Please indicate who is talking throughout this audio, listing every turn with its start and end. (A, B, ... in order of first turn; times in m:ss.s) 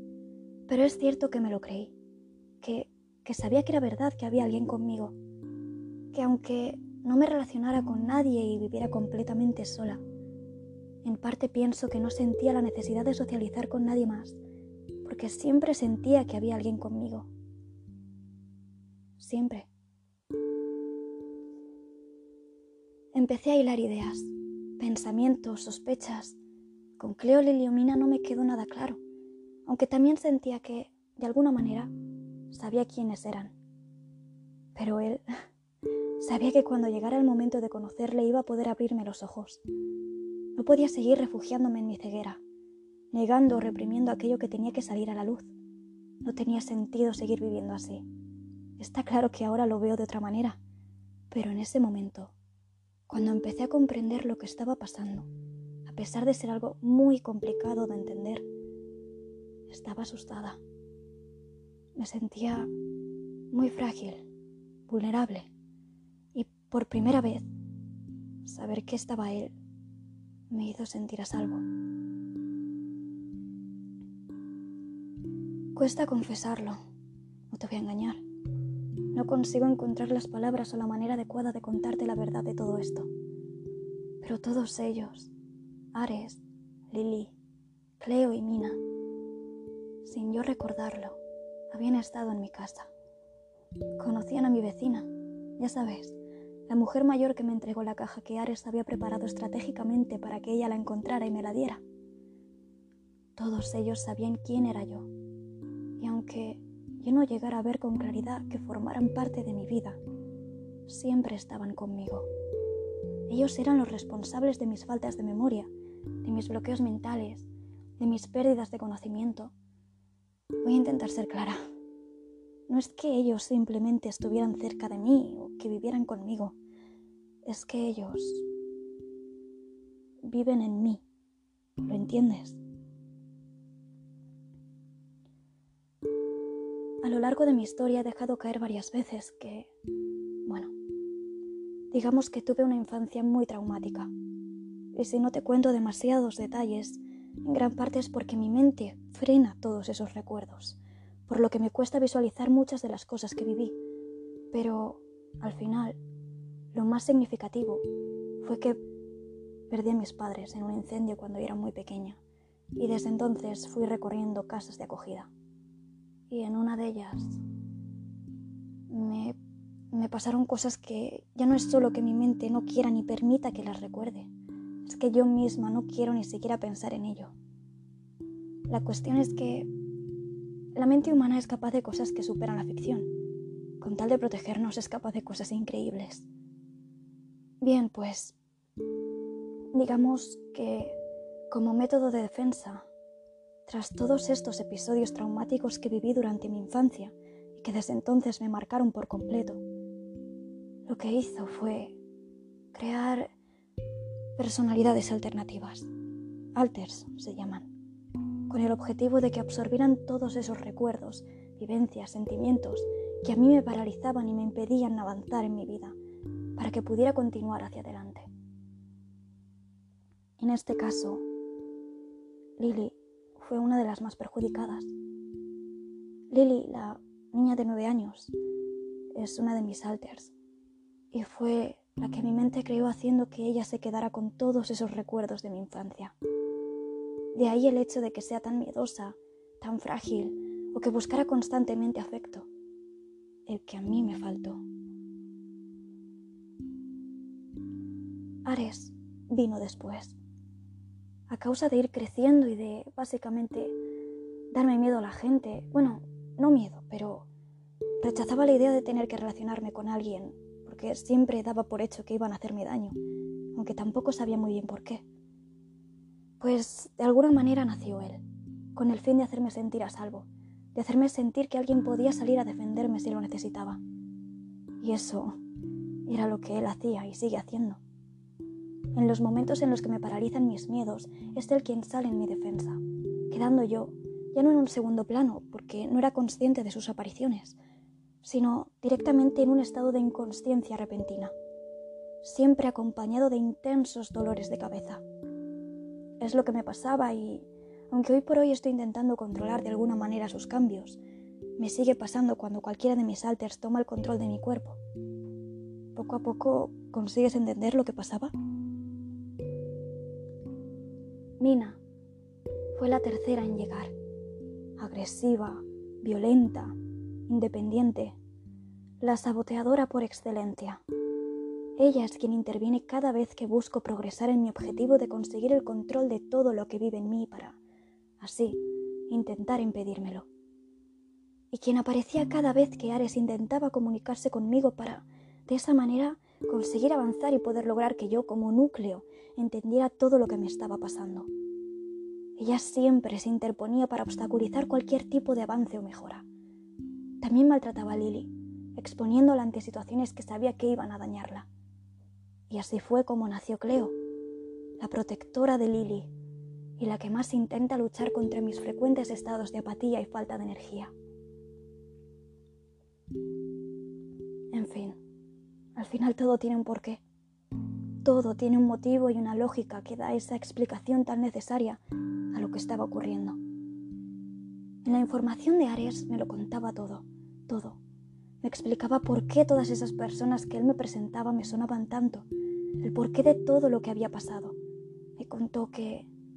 0:00.7-0:01.9 A
0:02.6-0:05.2 A
0:06.1-0:10.0 A
0:11.0-0:14.4 A
0:15.0-0:17.3 A
0:19.2-0:19.7 A
0:23.1-0:26.4 A
0:27.0-0:29.0 A
0:29.7-0:31.9 A
0:32.5-0:33.6 A
0:34.8-0:35.3 A
0:36.2-0:39.6 A
0:40.6-0:42.4 A
0:43.1-0:45.5 A
0:46.2-0:48.0 A
0:48.8-0:50.6 A
0:51.3-0:52.3 A
0:53.1-0:55.3 A
0:55.9-0:58.4 A
0:59.7-1:00.6 A
1:02.0-1:02.7 A
1:03.5-1:04.3 A
1:04.9-1:05.5 A
1:06.3-1:07.5 A
1:08.4-1:09.6 A
1:10.5-1:11.6 A
1:15.7-1:16.8 A
1:17.5-1:18.2 A
1:19.1-1:23.1 A
1:24.2-1:25.3 A
1:25.9-1:27.3 A
1:28.0-1:28.8 A
1:30.0-1:31.2 A
1:31.7-1:32.9 A
1:34.0-1:41.8 A
1:43.4-1:45.1 A
1:46.0-1:50.0 A
1:50.9-1:52.3 A
1:53.3-1:55.7 A
1:56.2-1:57.5 A
1:58.0-1:59.5 A
2:00.6-2:01.6 A
2:02.7-2:06.6 A
2:07.4-2:08.5 A
2:10.2-2:11.0 A
2:11.8-2:12.6 A
2:17.0-2:19.7 A
2:20.4-2:20.7 A
2:21.9-2:24.1 A
2:24.9-2:33.8 A
2:34.5-2:36.0 A
2:36.7-2:37.9 A
2:38.4-2:38.8 A
2:39.7-2:42.2 A
2:42.8-2:45.3 A
2:46.3-2:47.4 A
2:48.9-2:49.4 A
2:49.9-2:54.3 A
2:54.8-2:57.3 A
2:58.7-2:59.7 A
3:00.8-3:03.1 A
3:03.8-3:06.3 A
3:07.6-3:08.4 A
3:09.7-3:11.0 A
3:11.5-3:12.9 A
3:13.7-3:19.6 A
3:20.9-3:22.0 A
3:22.7-3:23.3 A
3:24.4-3:25.9 A
3:26.6-3:27.7 A
3:28.5-3:36.0 A
3:36.6-3:38.3 A
3:40.4-3:41.2 A
3:42.6-3:44.9 A
3:46.3-3:48.3 A
3:49.1-3:50.3 A
3:51.1-3:56.2 A
3:57.4-4:02.5 A
4:03.5-4:04.6 A
4:08.4-4:10.2 A
4:11.3-4:13.8 A
4:14.5-4:17.3 A
4:18.0-4:23.0 A
4:23.5-4:25.0 A
4:26.4-4:28.2 A
4:28.8-4:33.8 A
4:34.8-4:35.4 A
4:36.1-4:37.8 A
4:39.0-4:47.6 A
4:48.2-4:51.3 A
4:52.2-4:55.0 A
4:56.2-5:01.0 A
5:01.6-5:04.8 A
5:06.0-5:08.3 A
5:11.4-5:11.8 A
5:12.7-5:13.9 A
5:14.8-5:16.8 A
5:17.3-5:18.2 A
5:19.0-5:20.8 A
5:21.8-5:27.6 A
5:28.2-5:30.3 A
5:31.5-5:41.3 A
5:42.4-5:46.2 A
5:47.2-5:51.5 A
5:52.5-5:53.9 A
5:54.8-5:56.1 A
5:56.8-6:00.9 A
6:04.5-6:05.0 A
6:05.8-6:07.0 A
6:08.0-6:11.8 A
6:12.3-6:13.4 A
6:14.8-6:17.8 A
6:18.4-6:22.3 A
6:22.8-6:24.6 A
6:25.2-6:26.1 A